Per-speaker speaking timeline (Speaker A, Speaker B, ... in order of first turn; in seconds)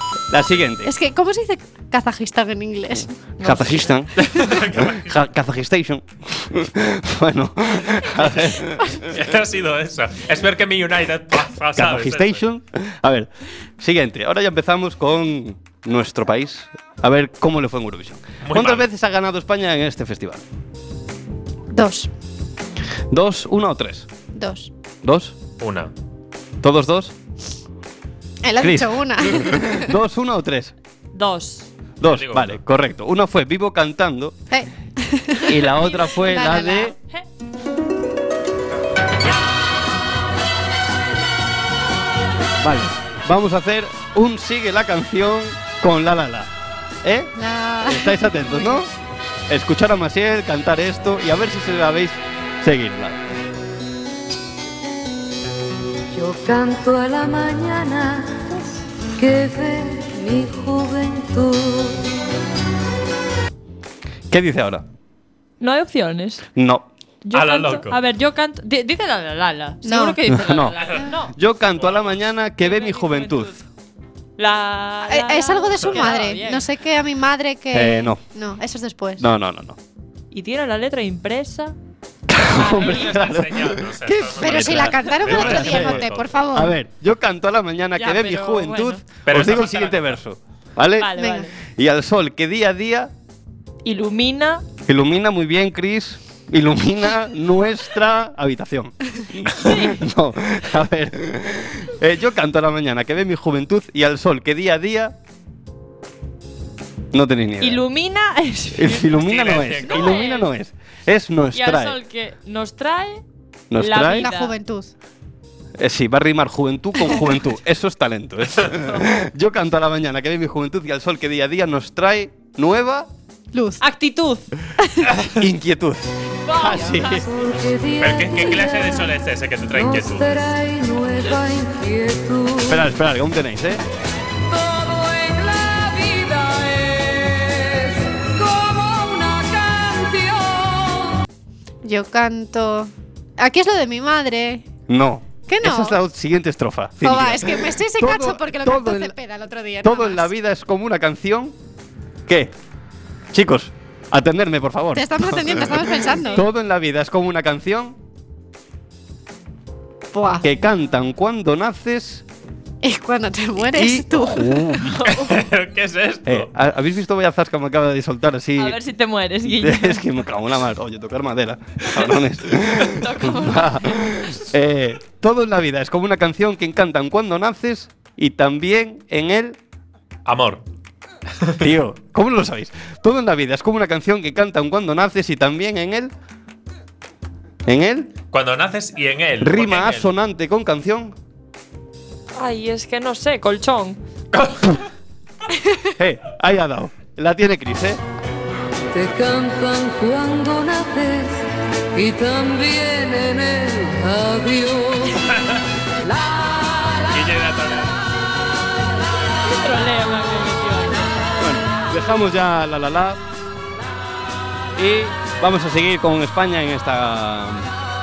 Speaker A: 0.3-0.9, 3.4-9.2, 11.7-13.3, 13.8-20.4, 23.1-24.1, 25.0-25.4, 26.6-27.1, 28.6-30.7, 32.0-34.4, 35.5-36.9, 42.6-46.5, 47.0-47.3, 47.8-48.9, 49.5-53.2, 64.3-64.8, 66.5-66.8, 70.3-73.5, 77.7-78.2, 79.2-79.8, 82.3-91.1, 91.7-93.1, 94.8-105.2, 107.1-107.8, 108.7-112.0, 113.7-114.3, 115.8-123.1, 125.3-127.3, 132.7-133.8, 144.9-149.2, 149.8-151.5, 152.3-152.5, 153.3-158.0, 160.4-162.2, 163.7-165.0, 166.2-168.8, 169.4-179.6, 181.6-186.1, 187.7-188.1, 189.4-191.2, 196.0-198.0, 211.4-213.2, 214.8-217.7
Speaker B: 0.8-3.1, 21.7-22.1, 24.3-24.7, 28.4-29.9, 34.5-36.9, 47.4-48.8, 69.8-70.2, 75.1-79.3, 84.4-86.8, 91.2-91.5, 114.1-114.9, 123.5-123.8, 124.8-125.1, 141.8-144.7, 145.5-146.0, 147.0-150.3, 154.9-156.4, 160.1-160.5, 162.8-164.8
Speaker C: 3.4-3.9, 31.1-31.7, 35.8-36.3, 65.6-66.5, 67.2-71.3, 72.6-73.6, 74.4-76.6, 80.3-81.7, 82.5-83.2, 88.0-89.0, 91.0-91.5, 93.8-94.6, 99.6-100.0, 107.6-109.3, 109.8-110.5, 111.5-113.2, 113.8-114.5, 123.8-124.5, 126.4-127.2, 164.8-165.3, 168.6-170.0, 172.9-174.4, 192.3-194.0, 209.5-211.1
Speaker D: 4.3-5.2, 9.1-12.4, 18.4-18.9, 25.6-25.9, 32.0-32.6, 67.3-68.0, 71.8-72.2, 82.5-86.5, 89.2-90.2, 109.2-110.2, 128.0-130.5, 165.1-166.5, 180.2-180.6, 188.3-190.1, 194.3-194.8, 207.1-207.9
Speaker E: 56.1-58.6, 59.1-62.0, 126.9-129.2, 129.7-132.8, 134.5-141.2, 198.9-205.3, 206.0-207.2